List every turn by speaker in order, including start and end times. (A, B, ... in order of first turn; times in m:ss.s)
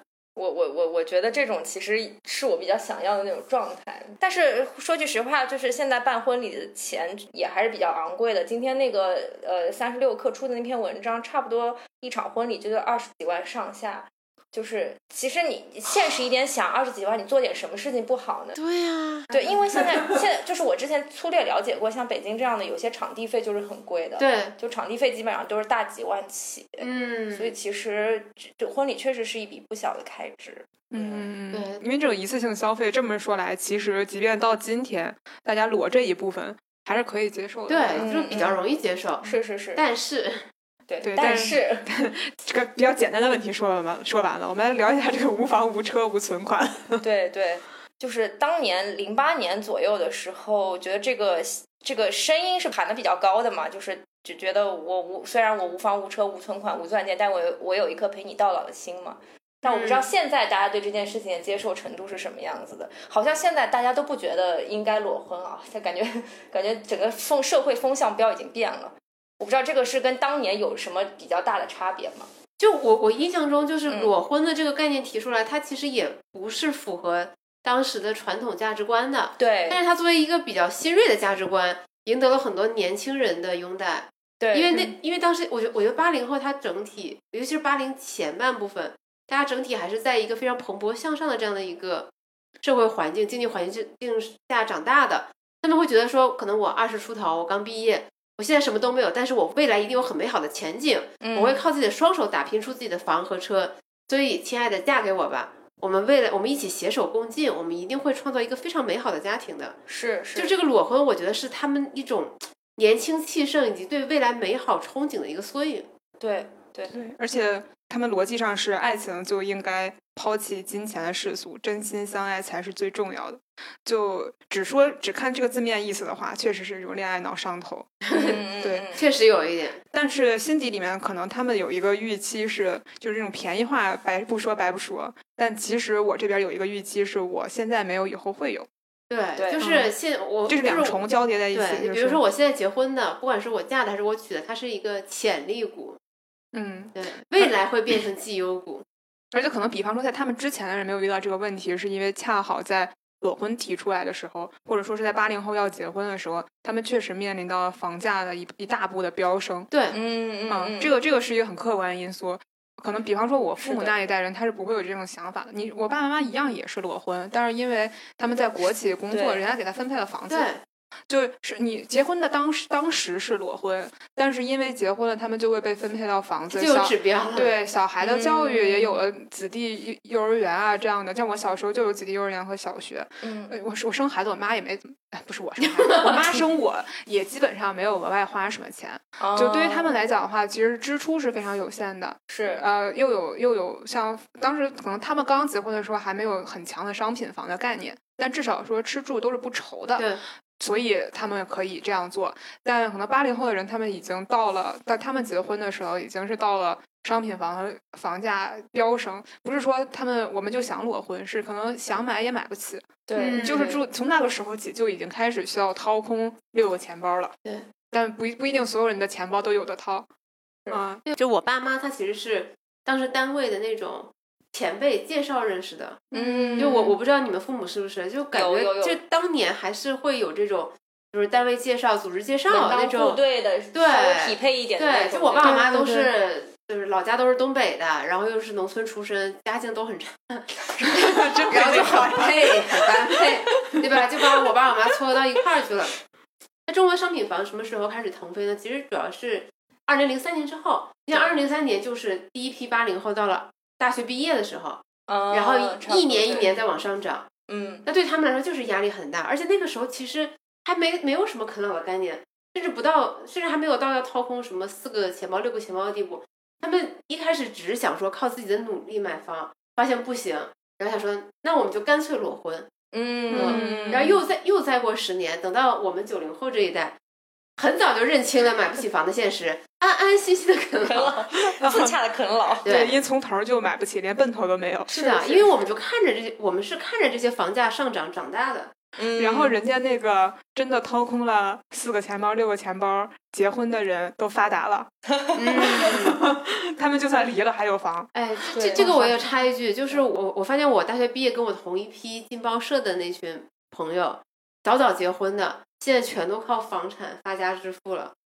0:00.4-0:18.6 A
0:18.6-0:19.9 B
0:19.3-0:31.3 A
0:24.2-0:24.6 B
0:26.8-0:27.5 B
0:30.9-0:38.1 C
0:31.5-0:31.8 B
0:37.7-0:39.2 B
0:38.0-0:38.6 A
0:39.2-0:39.8 A
0:39.8-0:40.4 B
0:40.9-0:41.9 A
0:41.0-0:47.0 C
0:47.0-1:12.3 A
0:59.6-1:00.1 B
1:12.6-1:32.1 B
1:13.9-1:14.1 A
1:19.4-1:19.8 A
1:24.4-1:24.8 A
1:32.6-1:49.8 B
1:41.2-1:41.6 A
1:49.9-1:50.5 A
1:50.4-1:55.9 B
1:56.2-1:57.0 A
1:56.9-2:08.0 C
2:08.0-2:08.4 B
2:08.1-2:09.0 A
2:08.6-2:08.9 C
2:09.0-2:09.8 B
2:09.9-2:18.7 C
2:19.1-2:26.0 B
2:19.4-2:19.6 A
2:19.6-2:19.9 C
2:20.5-2:22.2 C
2:26.5-2:27.5 C
2:27.0-2:28.8 B
2:29.3-2:39.7 C
2:39.7-2:40.0 B
2:39.9-2:40.9 A
2:40.5-2:50.5 C
2:43.6-2:43.9 A
2:49.1-2:49.4 A
2:50.3-2:50.6 B
2:51.1-3:37.4 C
2:56.5-2:57.5 B
2:58.0-2:59.0 A
3:03.2-3:03.6 A
3:05.8-3:06.2 B
3:09.2-3:09.9 A
3:12.3-3:12.6 A
3:20.0-3:20.2 B
3:33.1-3:33.8 A
3:33.2-3:33.8 B
3:37.9-3:40.1 C
3:40.7-3:41.0 C
3:41.1-3:46.0 B
3:46.1-3:46.9 C
3:46.1-3:46.9 A
3:46.6-3:53.2 B
3:48.3-3:49.0 A
3:52.5-3:56.1 A
3:53.7-4:06.0 B
3:55.4-3:55.9 C
4:00.8-4:03.8 C
4:06.7-4:17.3 B
4:15.1-4:16.6 A
4:17.5-4:17.9 A
4:17.9-4:32.7 B
4:32.9-4:34.1 A
4:33.3-4:34.2 C
4:33.3-4:37.0 B
4:37.6-4:41.2 B
4:40.9-4:42.7 A
4:41.6-4:41.9 C
4:42.6-4:43.0 B
4:42.6-4:44.9 C
4:44.9-4:45.5 A
4:44.9-4:48.7 B
4:49.0-4:49.6 A
4:49.2-4:54.9 C
4:55.4-4:56.2 B
4:55.5-4:58.1 C
4:58.2-5:08.1 B
4:58.5-4:58.9 A
4:58.6-4:59.2 C